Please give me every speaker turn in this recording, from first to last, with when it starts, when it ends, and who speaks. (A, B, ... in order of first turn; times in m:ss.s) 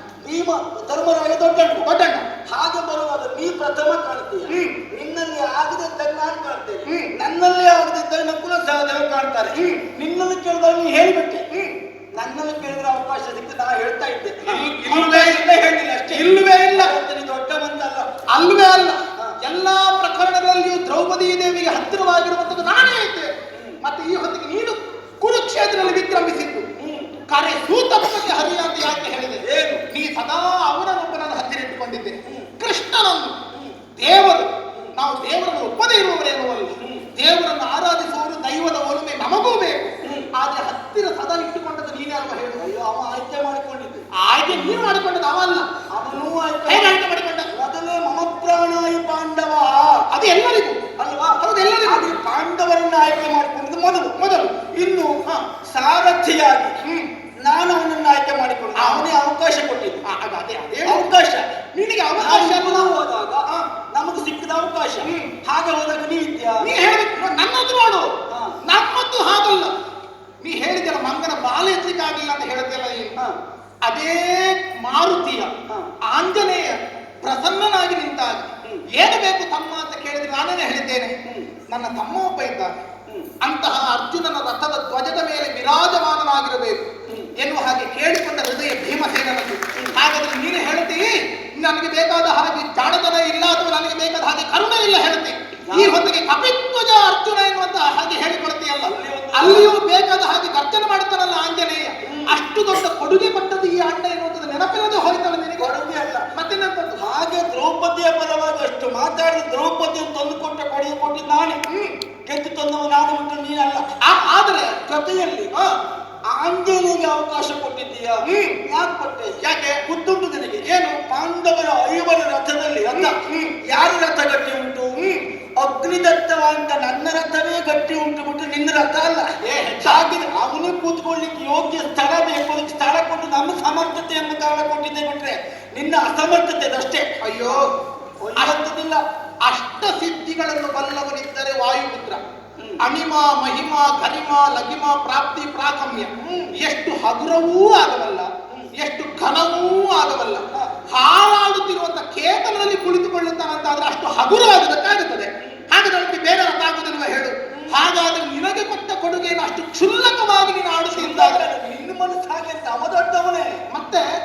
0:00.2-0:01.9 A
0:01.8-0:02.3 B
0:02.4-0:11.5 A
0:04.5-0:04.8 B
0:06.8-0:07.1 B
0:09.5-0:09.9 B
0:11.5-0:11.8 B
0:12.1-0:18.1 A
0:14.4-0:15.4 B
0:16.1-0:17.0 B
0:18.3-0:23.3 B
0:23.5-0:23.8 A
0:23.8-0:26.7 B
0:26.8-0:27.2 A
0:27.3-0:33.4 B
0:29.4-0:29.9 A
0:32.3-0:32.5 A
0:34.0-0:42.6 B
0:36.8-0:37.1 A
0:40.0-0:40.3 A
0:42.6-0:44.1 A
0:44.2-0:45.7 B
0:45.9-0:47.0 A
0:46.7-0:47.5 B
0:47.5-0:50.1 A
0:50.1-0:50.8 B
0:51.0-0:54.2 A
0:51.4-0:52.1 B
0:54.2-0:54.6 B
0:54.7-0:56.8 A
0:56.8-0:57.1 B
0:57.4-1:00.0 A
0:58.8-0:59.1 B
1:00.0-1:01.1 B
1:00.8-1:01.5 A
1:01.7-1:03.7 B
1:02.2-1:06.8 A
1:05.0-1:05.3 B
1:06.6-1:08.1 B
1:08.3-1:08.6 A
1:08.6-1:09.7 B
1:10.4-1:13.2 B
1:13.8-1:15.5 B
1:15.7-1:15.9 A
1:16.0-1:21.1 B
1:21.2-1:21.6 A
1:21.7-1:22.7 B
1:23.4-1:45.7 B
1:27.1-1:27.3 A
1:35.7-1:36.0 A
1:38.8-1:39.7 A
1:42.0-1:42.3 A
1:45.6-1:46.3 A
1:46.3-1:47.0 B
1:47.0-1:51.6 A
1:51.7-1:52.0 B
1:52.3-1:53.9 A
1:54.0-1:54.8 B
1:54.9-1:55.5 A
1:55.5-1:55.8 B
1:56.3-2:05.0 A
1:58.2-1:58.6 B
1:59.4-1:59.8 B
2:00.6-2:01.0 B
2:02.9-2:03.5 B
2:05.0-2:05.3 B
2:05.6-2:17.7 A
2:09.4-2:10.0 B
2:17.2-2:17.7 B
2:18.2-2:19.0 A
2:19.4-2:22.2 B
2:22.8-2:41.4 B
2:26.2-2:26.6 A
2:37.5-2:37.8 A
2:40.9-2:43.6 A
2:43.7-2:44.1 B